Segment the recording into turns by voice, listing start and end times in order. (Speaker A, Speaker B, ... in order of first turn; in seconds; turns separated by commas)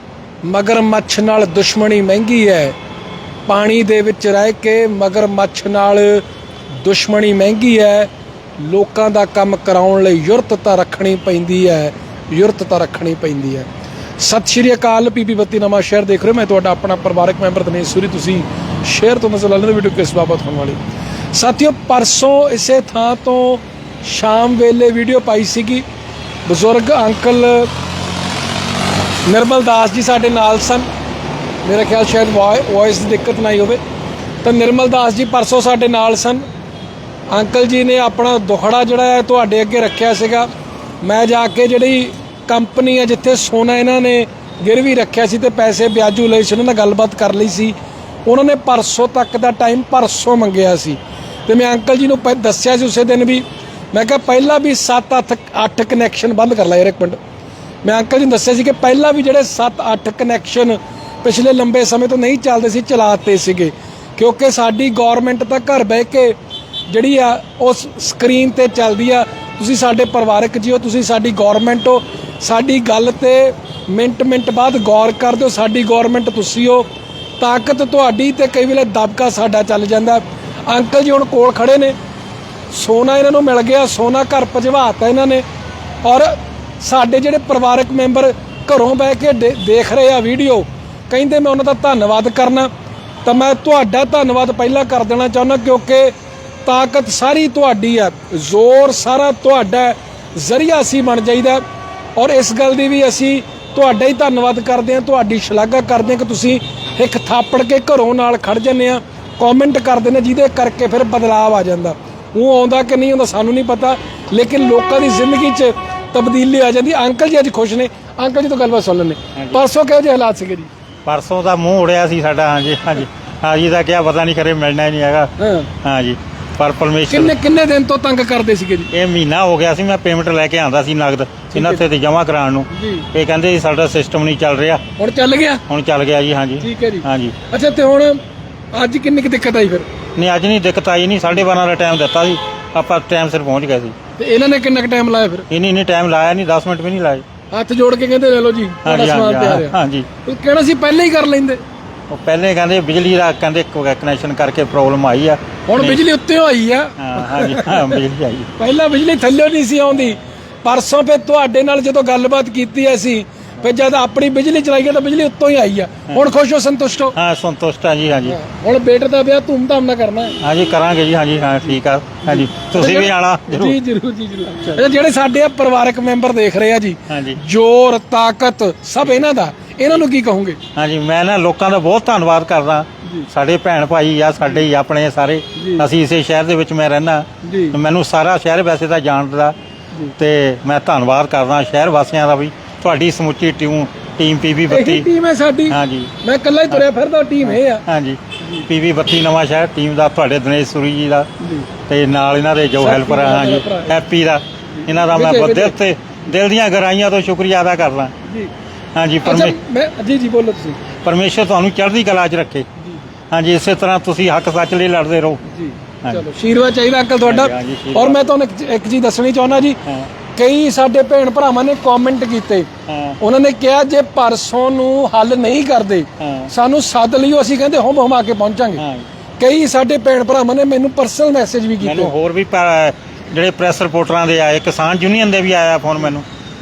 Speaker A: 0.5-2.8, Speaker A: 3.5-6.2, Speaker A: 6.8-13.7, Speaker A: 14.2-20.8, Speaker A: 21.4-25.9, Speaker A: 26.5-27.7, Speaker A: 29.3-30.9, Speaker A: 31.6-33.8, Speaker A: 34.4-36.5, Speaker A: 37.3-40.5, Speaker A: 41.0-47.8, Speaker A: 48.3-57.2, Speaker A: 57.8-66.3, Speaker A: 66.9-76.9, Speaker A: 77.4-82.0, Speaker A: 82.7-85.4, Speaker A: 86.0-92.7, Speaker A: 93.2-96.1, Speaker A: 96.7-101.6, Speaker A: 102.2-120.7, Speaker B: 119.4-119.6, Speaker B: 121.1-125.3, Speaker A: 125.4-125.7, Speaker B: 125.8-127.4, Speaker A: 127.1-128.9, Speaker B: 128.9-134.8, Speaker A: 131.5-131.8, Speaker A: 132.7-133.1, Speaker A: 135.0-135.6, Speaker B: 135.7-137.3, Speaker A: 136.6-138.2, Speaker A: 138.7-139.9, Speaker B: 140.2-143.9, Speaker A: 144.2-145.5, Speaker B: 145.5-147.2, Speaker A: 147.5-151.6, Speaker B: 148.8-150.1, Speaker B: 152.1-156.0, Speaker A: 155.7-158.0, Speaker B: 157.0-158.5, Speaker A: 158.6-167.2, Speaker B: 167.2-168.4, Speaker A: 168.3-170.4, Speaker B: 170.4-173.8, Speaker A: 172.3-180.6, Speaker B: 177.1-177.4, Speaker B: 180.8-189.5, Speaker A: 185.6-185.9, Speaker A: 187.4-187.8, Speaker B: 190.2-195.1, Speaker A: 194.7-197.8, Speaker B: 195.7-196.1, Speaker B: 197.5-201.3, Speaker A: 198.4-198.7, Speaker A: 201.4-201.7, Speaker B: 201.9-208.1, Speaker A: 202.8-204.0, Speaker A: 204.8-205.8, Speaker A: 208.2-208.5, Speaker B: 208.9-209.6, Speaker A: 209.2-210.8, Speaker B: 211.0-212.7, Speaker B: 213.3-215.4, Speaker A: 215.5-219.8, Speaker B: 217.2-218.3, Speaker A: 220.3-222.7, Speaker B: 222.9-223.2, Speaker A: 223.2-228.8, Speaker B: 226.2-226.5, Speaker B: 228.8-229.1, Speaker A: 229.4-232.1, Speaker B: 231.8-236.3